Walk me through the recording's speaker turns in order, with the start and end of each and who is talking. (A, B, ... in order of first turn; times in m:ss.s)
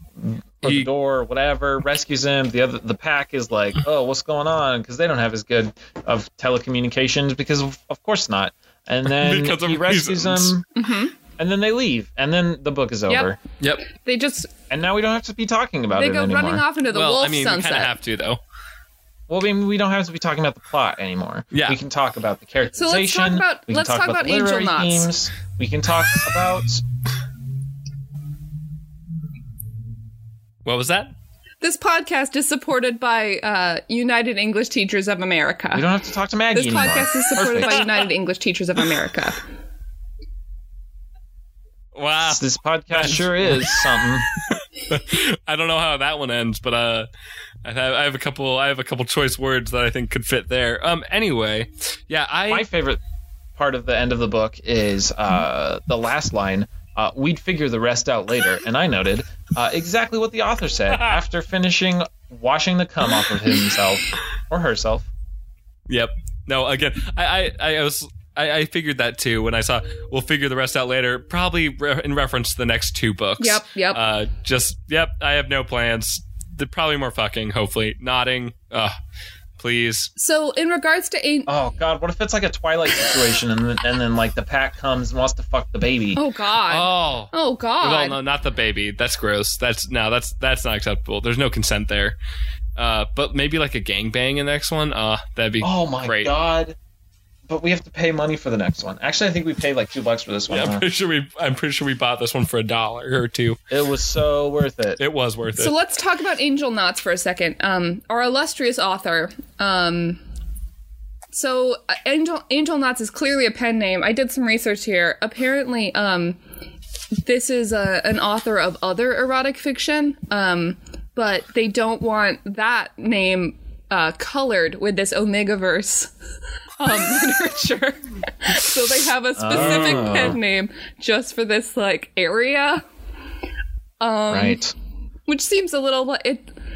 0:00.2-0:10.6 A
0:00.6-0:00.9 B
0:09.1-0:10.5 B
0:10.7-0:11.1 C
0:11.4-0:13.4 A
0:13.6-0:13.8 B
0:13.9-0:14.5 C
0:14.7-0:16.6 A
0:15.9-0:18.0 C
0:16.9-0:18.4 B
0:19.3-0:26.8 A
0:21.5-0:21.8 B
0:22.7-0:25.1 C
0:30.6-0:31.1 B
0:31.6-0:35.9 C
0:35.7-0:37.8 A
0:36.5-0:39.4 C
0:37.6-0:38.0 B
0:41.9-0:43.9 B
0:42.2-0:44.3 A
0:44.5-0:47.1 B
0:47.6-0:52.6 B
0:52.5-0:53.0 A
0:53.6-1:05.1 A
1:05.9-1:18.9 B
1:13.4-1:14.0 C
1:19.6-1:20.1 B
1:20.2-1:21.5 C
1:21.5-1:26.2 A
1:26.2-1:28.2 C
1:26.7-1:32.2 B
1:32.8-1:36.3 B
1:35.6-1:36.8 A
1:37.5-1:40.8 A
1:40.5-1:43.6 B
1:43.7-1:45.0 A
1:45.0-1:45.7 B
1:45.6-1:50.2 C
1:51.3-1:56.4 C
1:57.2-2:06.1 C
2:06.8-2:12.8 C
2:09.4-2:10.4 A
2:09.5-2:10.3 B
2:14.0-2:14.6 C
2:14.3-2:14.7 A
2:15.3-2:16.5 C